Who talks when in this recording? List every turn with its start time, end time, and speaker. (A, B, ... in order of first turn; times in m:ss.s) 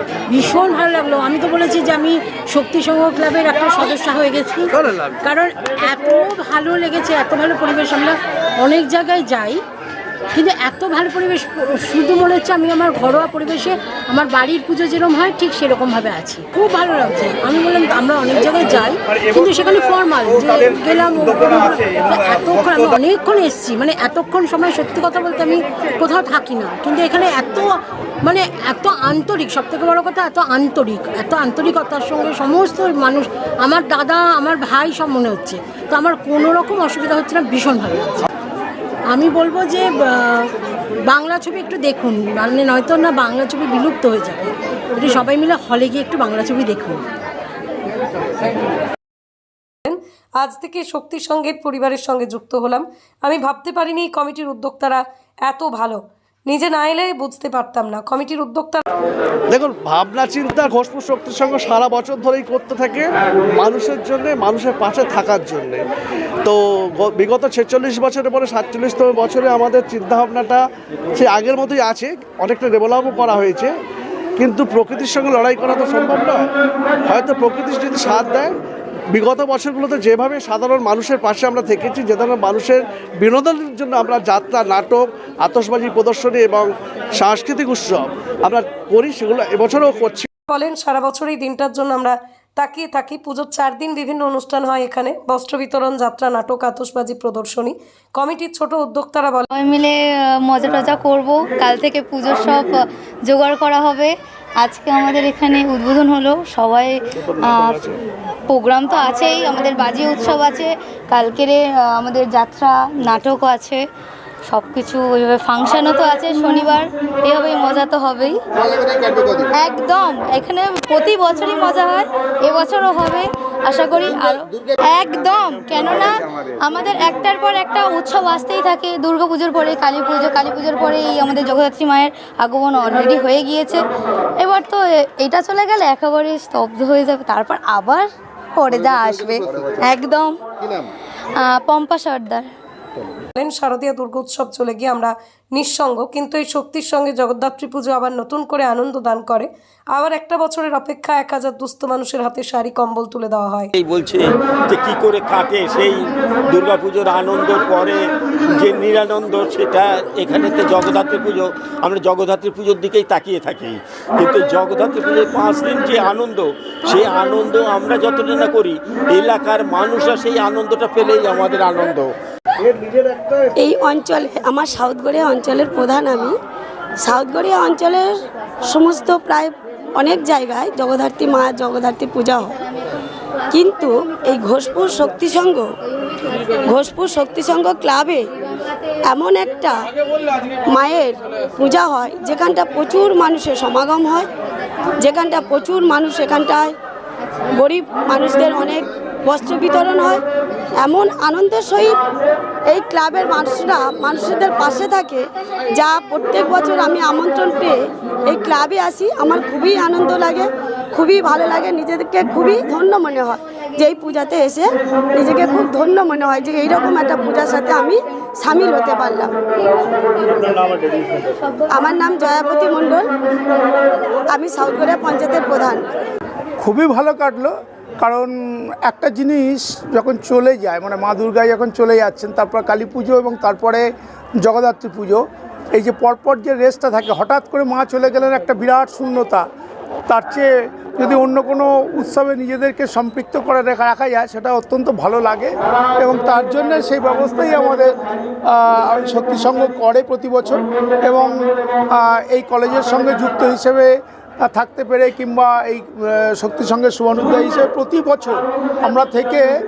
0:00.3-0:09.6 A
0:10.3-0:38.3 A
0:39.1-0:40.5 A
0:41.1-0:47.0 A
0:49.8-0:58.9 B
0:59.5-1:05.9 C
1:06.4-1:10.6 C
1:11.2-1:13.7 C
1:14.4-1:16.5 C
1:17.1-1:18.5 C
1:19.1-1:30.3 C
1:30.5-1:39.5 B
1:39.5-1:47.9 D
1:48.5-1:53.8 D
1:54.5-1:58.4 D
1:59.5-2:13.8 D
2:14.4-2:18.1 D
2:18.6-2:20.4 D
2:21.4-2:22.5 D
2:23.4-2:33.7 B
2:33.8-2:52.1 E
2:52.7-2:53.4 C
2:53.6-2:56.4 F
2:57.0-2:58.1 F
2:58.7-3:02.6 F
3:03.5-3:05.7 F
3:06.6-3:08.3 F
3:09.1-3:09.8 F
3:10.7-3:14.3 F
3:15.0-3:16.8 F
3:17.5-3:20.2 F
3:20.8-3:22.0 F
3:22.7-3:39.3 F
3:41.7-3:43.1 F
3:44.3-3:45.8 F
3:46.6-3:48.3 G
3:48.8-3:53.9 G
3:54.4-3:55.2 G
3:55.7-3:59.4 G
4:00.1-4:07.9 G
4:08.5-4:11.3 G
4:11.9-4:19.5 G